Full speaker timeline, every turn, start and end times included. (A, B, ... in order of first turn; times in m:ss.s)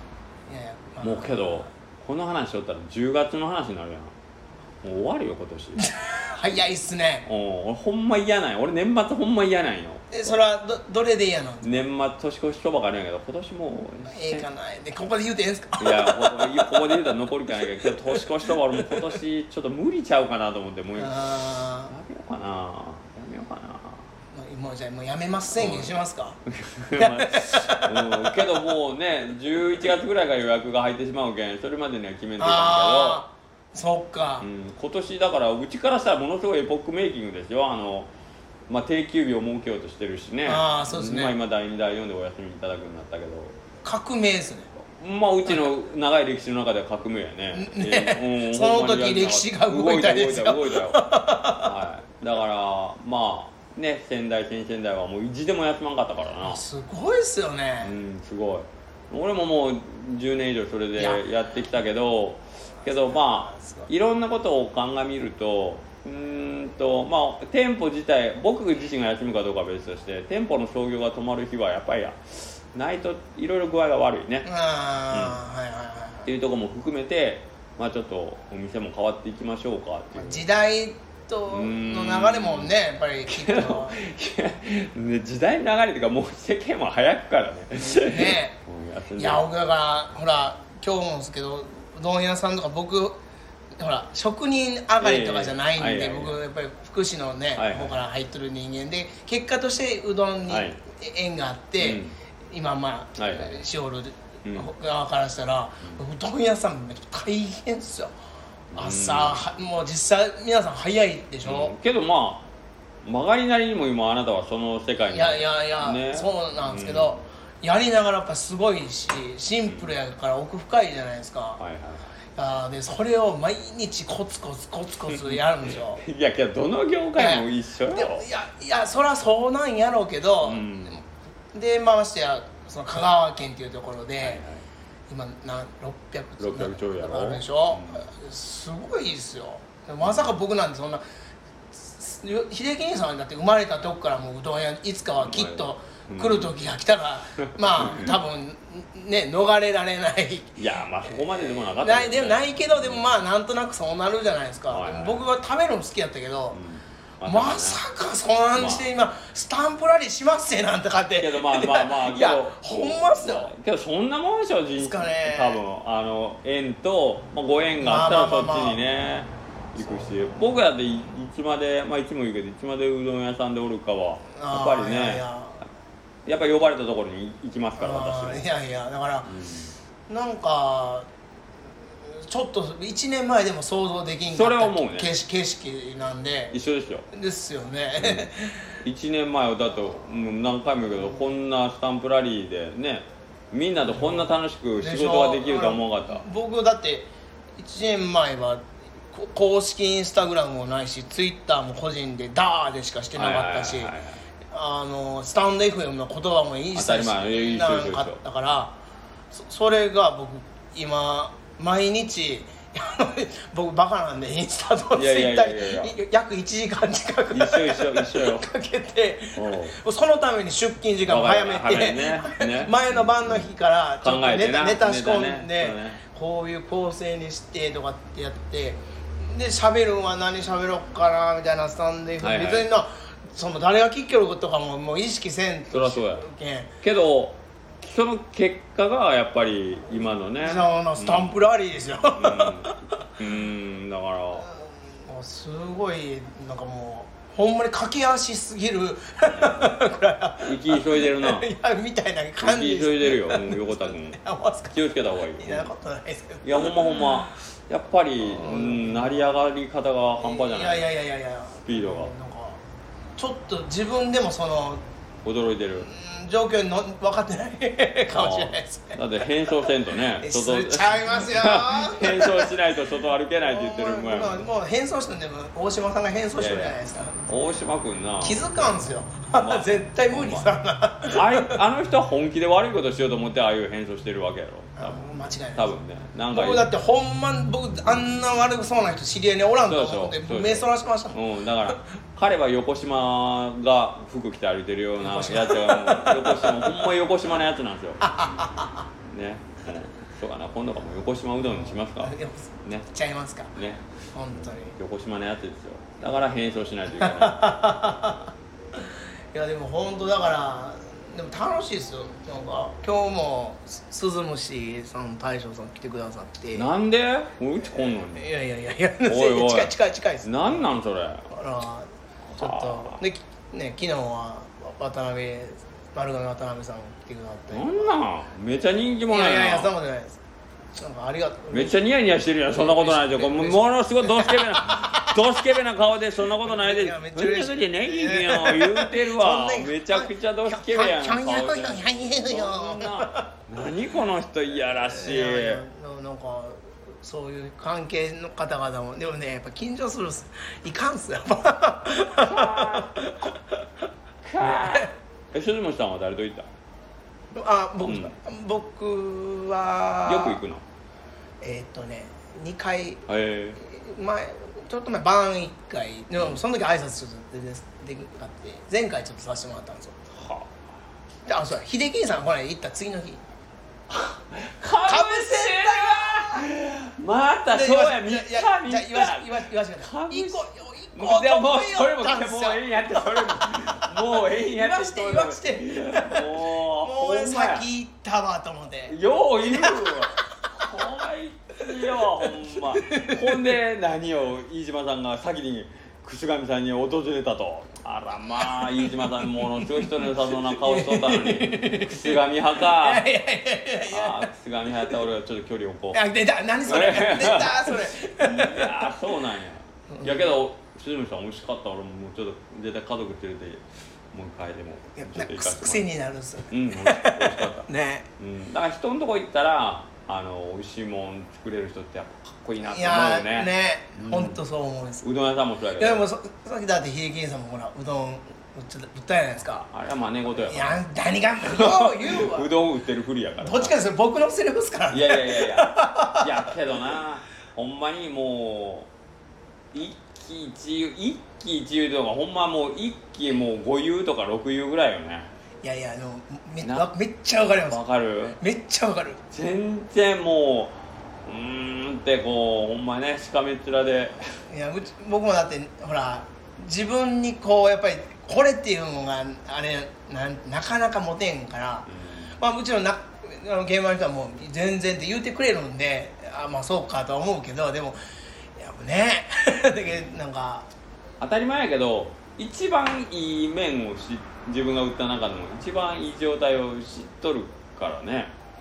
0:00.5-0:01.7 A
0:01.0-0:04.1 B
0:04.8-0:05.8 B
0:05.8-0:07.3 A
0:07.2-0:10.2 B
0:10.1-0:11.8 A
0:11.6-0:14.4 B
0:14.1-0:16.8 A
0:15.8-0:21.2 B
0:17.8-0:18.3 A
0:21.0-0:21.9 A
0:21.9-0:24.1 B
0:24.3-0:26.4 A
0:25.6-0:25.9 B
0:26.4-0:33.2 B
0:26.9-0:28.5 A
0:32.4-0:34.4 A
0:34.4-0:38.1 B
0:38.7-0:43.6 B
0:40.4-0:41.4 A
0:43.8-0:44.7 A
0:44.8-0:51.0 B
0:47.5-0:51.7 A
0:51.6-0:56.6 B
0:56.4-0:58.0 A
0:57.8-1:14.5 B
1:01.0-1:01.2 A
1:02.8-1:03.9 A
1:14.4-1:16.3 A
1:15.1-1:15.4 B
1:16.3-1:20.4 B
1:20.1-1:24.0 A
1:21.5-1:22.7 B
1:23.3-1:29.4 B
1:27.8-1:28.6 A
1:29.2-1:33.2 A
1:33.8-1:48.1 A
1:35.0-1:36.4 B
1:37.6-1:38.0 B
1:40.5-1:40.8 B
1:41.8-1:42.2 B
1:43.2-1:43.6 B
1:44.4-1:44.7 B
1:48.7-1:49.4 B
1:48.8-1:51.7 A
1:51.4-1:52.5 B
1:53.0-1:57.2 B
1:55.1-2:01.6 A
1:59.7-1:59.9 B
2:01.6-2:02.1 B
2:02.4-2:06.0 A
2:05.1-2:08.3 B
2:07.2-2:11.0 A
2:10.4-2:11.0 B
2:11.5-2:14.4 A
2:14.2-2:14.6 B
2:15.1-2:21.0 A
2:16.4-2:18.1 B
2:20.0-2:20.4 B
2:21.7-2:30.6 A
2:25.2-2:26.5 B
2:27.6-2:28.2 B
2:30.6-2:33.1 B
2:31.1-2:36.6 A
2:34.7-2:35.3 B
2:36.5-2:37.8 B
2:37.2-2:43.5 A
2:38.5-2:38.9 B
2:41.1-2:55.2 B
2:44.8-2:45.6 A
2:47.8-2:48.8 A
2:54.4-2:55.6 A
2:56.2-2:58.4 B
2:57.8-2:59.3 A
2:59.2-2:59.7 B
3:00.1-3:01.1 A
3:02.1-3:06.5 A
3:04.3-3:05.1 B
3:06.5-3:07.1 B
3:07.1-3:08.8 A
3:08.0-3:08.3 B
3:08.8-3:16.2 B
3:11.0-3:11.3 A
3:13.9-3:24.0 A
3:23.1-3:24.2 B
3:24.5-3:28.8 A
3:26.7-3:28.2 B
3:29.3-3:56.7 A
3:34.9-3:36.0 B
3:37.3-3:38.5 B
3:39.4-3:39.8 B
3:41.1-3:43.5 B
3:44.0-3:46.0 B
3:52.2-3:52.7 B
3:55.7-3:56.2 B
3:56.8-4:01.4 B
4:00.4-4:02.8 A
4:02.1-4:04.5 B
4:04.4-4:14.9 A
4:09.3-4:09.7 B
4:10.4-4:11.5 B
4:12.4-4:14.2 B
4:14.7-4:15.7 B
4:15.4-4:17.3 A
4:16.4-4:20.9 B
4:18.2-4:19.4 A
4:20.2-4:22.6 A
4:21.6-4:22.1 B
4:23.2-4:24.8 A
4:25.2-4:25.9 B
4:25.8-4:29.0 A
4:28.1-4:34.5 B
4:30.2-4:32.5 A
4:33.4-4:37.3 A
4:36.4-4:40.5 B
4:38.2-4:41.6 A
4:41.1-4:46.7 B
4:44.8-4:45.7 A
4:46.3-4:51.8 A
4:49.7-4:58.0 B
4:55.0-4:56.8 A
4:58.0-4:58.9 A
4:59.0-5:02.9 B
5:01.4-5:03.6 A
5:03.6-5:07.5 B
5:04.1-5:04.7 A
5:06.9-5:16.7 A
5:16.5-5:18.3 B
5:17.8-5:20.7 A
5:19.1-5:21.3 B
5:21.3-5:28.0 A
5:22.3-5:23.0 B
5:27.5-5:29.7 B
5:29.1-5:30.2 A
5:30.8-5:31.8 A
5:31.5-5:45.6 B
5:32.5-5:35.5 A
5:36.3-5:43.3 A
5:44.9-5:53.9 A
5:52.1-5:52.9 B
5:54.2-5:56.5 B
5:54.4-5:54.9 A
5:57.4-6:00.4 A
5:57.8-5:58.1 B
6:00.1-6:00.6 B
6:01.4-6:03.0 A
6:03.1-6:03.6 B
6:03.6-6:10.0 A
6:10.1-6:10.5 B
6:11.3-6:13.2 A
6:13.9-6:27.7 B
6:14.8-6:16.5 A
6:17.5-6:30.8 A
6:28.9-6:43.1 B
6:31.9-6:33.4 A
6:38.2-6:44.3 A
6:43.9-6:46.0 B
6:45.9-6:48.9 A
6:46.6-6:55.9 B
6:49.9-6:50.4 A
6:55.0-6:58.1 A
6:56.5-6:57.7 B
6:58.2-7:04.4 B
7:02.6-7:05.1 A
7:05.0-7:06.0 B
7:05.8-7:09.7 A
7:09.7-7:10.8 B
7:10.4-7:12.5 A
7:11.4-7:13.7 B
7:13.4-7:16.8 A
7:14.9-7:18.9 B
7:19.7-7:25.3 B
7:25.6-7:27.8 A
7:26.6-7:26.9 B
7:27.7-7:28.4 B
7:28.4-7:29.2 A
7:29.3-7:34.4 B
7:34.4-7:48.0 A
7:41.9-7:42.4 B
7:48.6-7:50.7 A
7:49.8-7:50.1 B
7:51.2-7:58.3 B